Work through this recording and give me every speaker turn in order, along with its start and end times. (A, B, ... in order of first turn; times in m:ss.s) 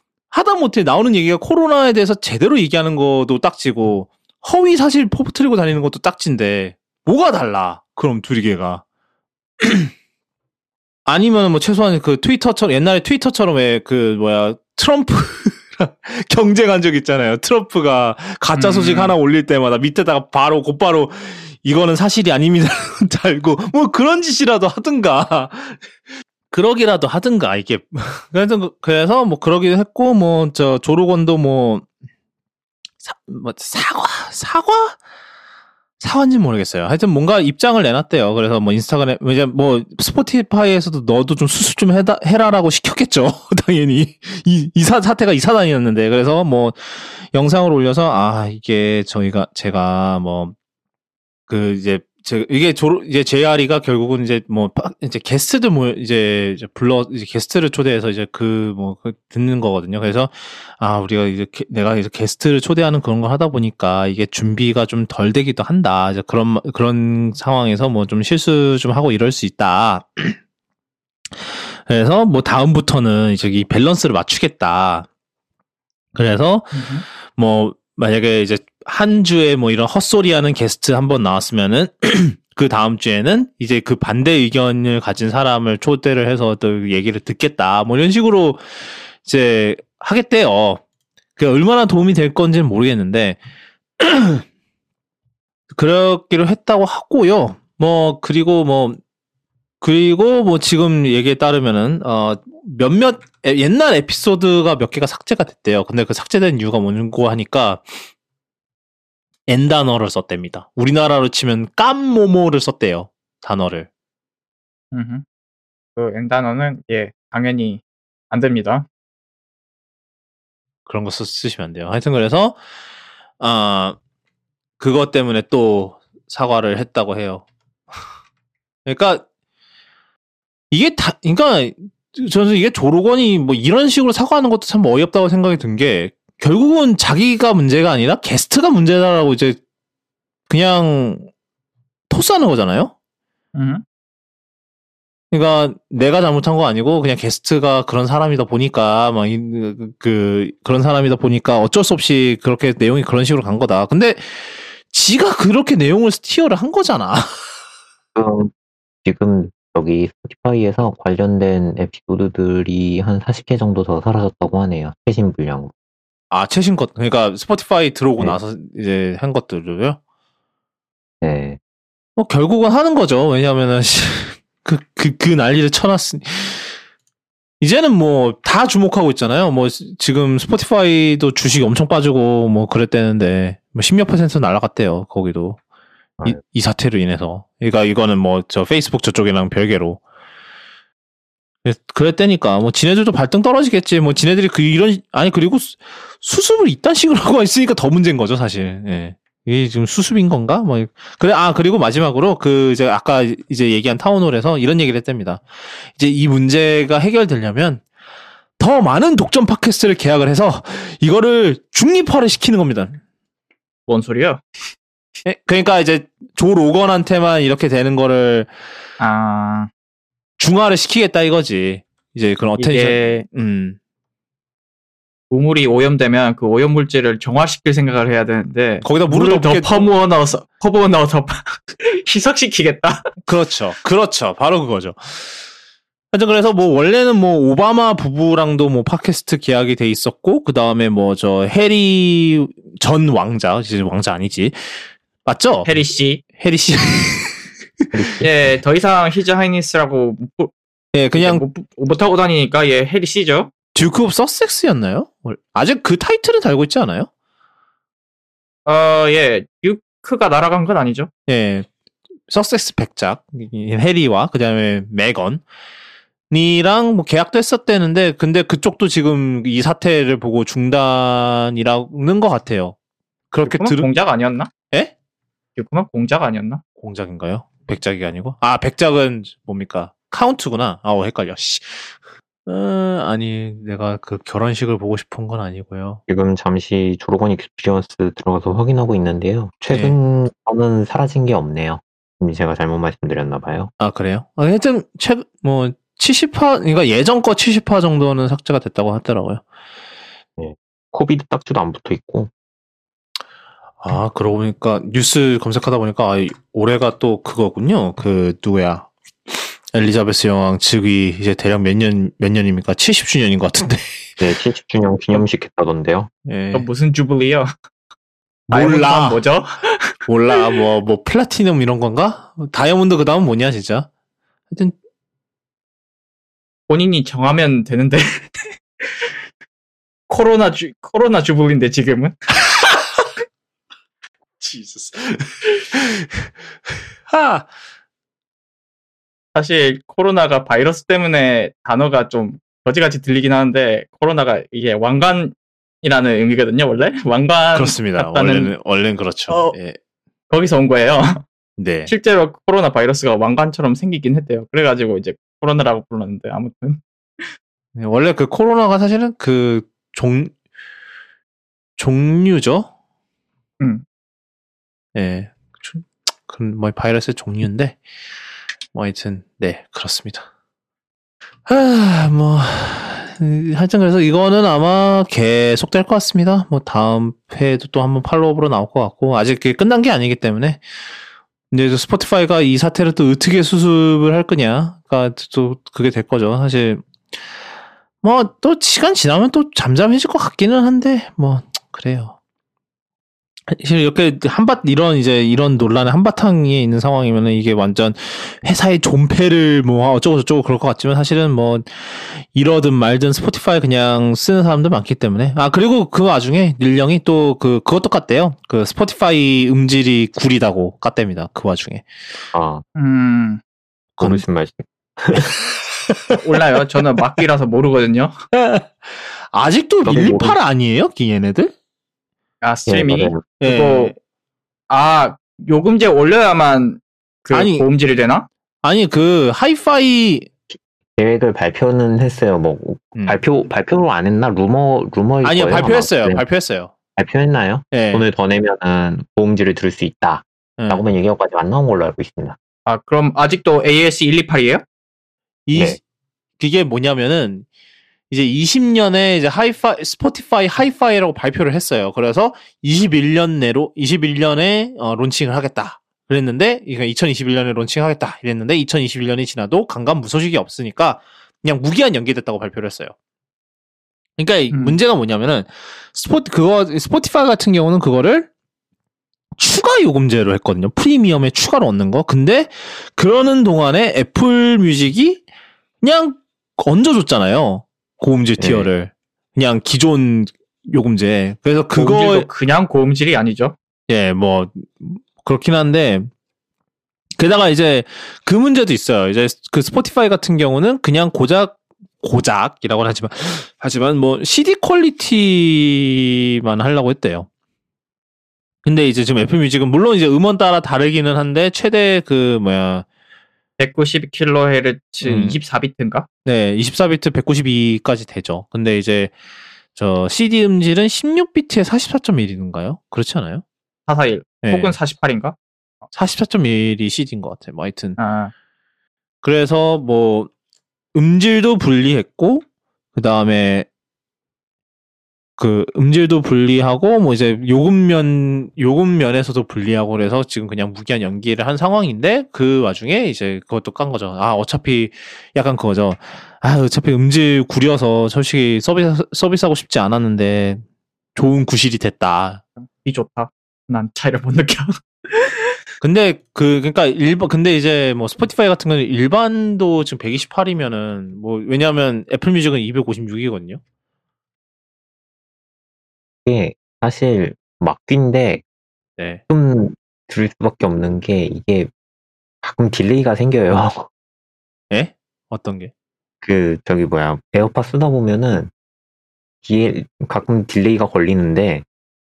0:00.3-0:08.8 A
0:09.6-0:09.9 A
0:11.1-0:25.9 A
0:18.6-0:19.2 B
0:26.5-0:31.9 A
0:33.0-0:35.0 A
0:36.0-0:50.5 A
0:51.5-1:10.4 A
1:11.4-1:15.1 A
1:16.2-1:30.8 A
1:16.7-1:17.0 B
1:31.4-1:33.4 A
1:34.0-1:34.4 A
1:35.7-1:39.0 A
1:39.8-1:48.0 A
1:49.5-1:53.9 A
1:54.9-1:55.2 B
1:56.0-1:58.9 B
2:00.9-2:02.6 A
2:03.4-2:04.0 A
2:04.8-2:07.4 A
2:08.9-2:09.2 A
2:10.7-2:19.6 A
2:20.5-2:21.3 A
2:22.1-2:22.9 A
2:23.6-2:23.8 B
2:25.3-2:37.3 A
2:38.2-2:38.5 C
2:39.0-2:45.7 C
2:46.3-2:50.0 A
2:51.2-2:51.6 C
2:52.2-2:56.8 A
2:57.6-3:05.6 A
3:06.2-3:10.0 A
3:11.6-3:27.8 A
3:28.6-3:33.0 A
3:33.9-3:34.4 B
3:35.2-3:38.5 A
3:39.0-3:39.7 B
3:40.4-3:43.8 A
3:42.6-3:43.2 B
3:45.3-3:53.1 B
3:48.8-3:49.8 A
3:53.2-3:55.5 A
3:56.1-4:05.7 A
4:05.6-4:06.2 B
4:06.4-4:07.9 A
4:07.9-4:08.3 C
4:08.2-4:10.5 B
4:10.9-4:11.4 A
4:11.1-4:13.5 B
4:13.8-4:17.1 A
4:18.7-4:21.1 B
4:21.3-4:21.7 A
4:22.3-4:25.4 A
4:26.3-4:32.8 A
4:33.3-4:33.9 A
4:33.5-4:34.5 B
4:35.6-4:36.6 B
4:36.8-4:46.0 A
4:46.1-4:53.7 C
4:53.8-4:59.4 A
5:00.4-5:02.3 C
5:03.8-5:14.1 A
5:14.2-5:16.1 C
5:16.3-5:16.7 A
5:16.5-5:17.5 B
5:18.5-5:19.2 A
5:18.5-5:20.4 B
5:20.1-5:23.9 A
5:26.7-5:29.1 B
5:30.1-5:32.2 B
5:34.4-5:36.2 A
5:37.1-5:37.5 A
5:39.4-5:48.5 B
5:47.6-5:49.8 A
5:49.3-5:49.6 B
5:50.3-5:51.2 B
5:51.6-5:51.9 A
5:51.9-5:57.3 B
5:57.8-6:00.3 A
6:01.8-6:02.7 A
6:05.0-6:07.8 A
6:08.7-6:10.3 A
6:11.5-6:20.6 A
6:21.5-6:26.8 A
6:28.0-6:32.2 A
6:33.5-6:51.9 A
6:52.3-6:52.6 C
6:52.8-6:53.4 B
6:54.0-6:55.4 C
6:56.2-6:58.1 B
6:58.3-6:58.8 A
6:59.3-7:01.5 A
6:59.8-7:00.4 C
7:02.4-7:03.9 B
7:02.7-7:03.2 C
7:03.4-7:04.0 A
7:04.7-7:08.3 B
7:07.3-7:07.7 A
7:08.6-7:10.3 A
7:11.0-7:16.2 C
7:15.2-7:16.7 A
7:17.0-7:22.4 C
7:17.7-7:18.1 A
7:20.6-7:20.8 A
7:22.7-7:24.6 B
7:25.5-7:25.8 A
7:26.4-7:27.5 A
7:28.1-7:42.9 A
7:44.2-7:48.3 A
7:44.5-7:44.8 B
7:49.4-7:55.2 A
7:55.8-8:02.3 A
7:58.4-7:58.7 C
8:01.8-8:03.6 B
8:03.9-8:06.1 A
8:07.2-8:17.3 A
8:18.6-8:22.8 A
8:23.6-8:26.1 B
8:25.0-8:25.4 A
8:26.2-8:29.1 A
8:29.8-8:33.4 A
8:33.9-8:35.4 B
8:34.4-8:34.8 A
8:35.9-8:38.0 A
8:38.0-8:38.3 B
8:39.2-8:40.3 A
8:41.0-8:42.4 A
8:43.0-8:43.7 A
8:45.4-9:00.6 A
9:01.2-9:02.4 A
9:02.6-9:05.5 B
9:05.8-9:13.6 A
9:16.3-9:18.4 C
9:19.3-9:21.7 C
9:22.4-9:23.9 C
9:24.7-9:25.7 A
9:26.2-9:28.5 C
9:29.4-9:31.6 C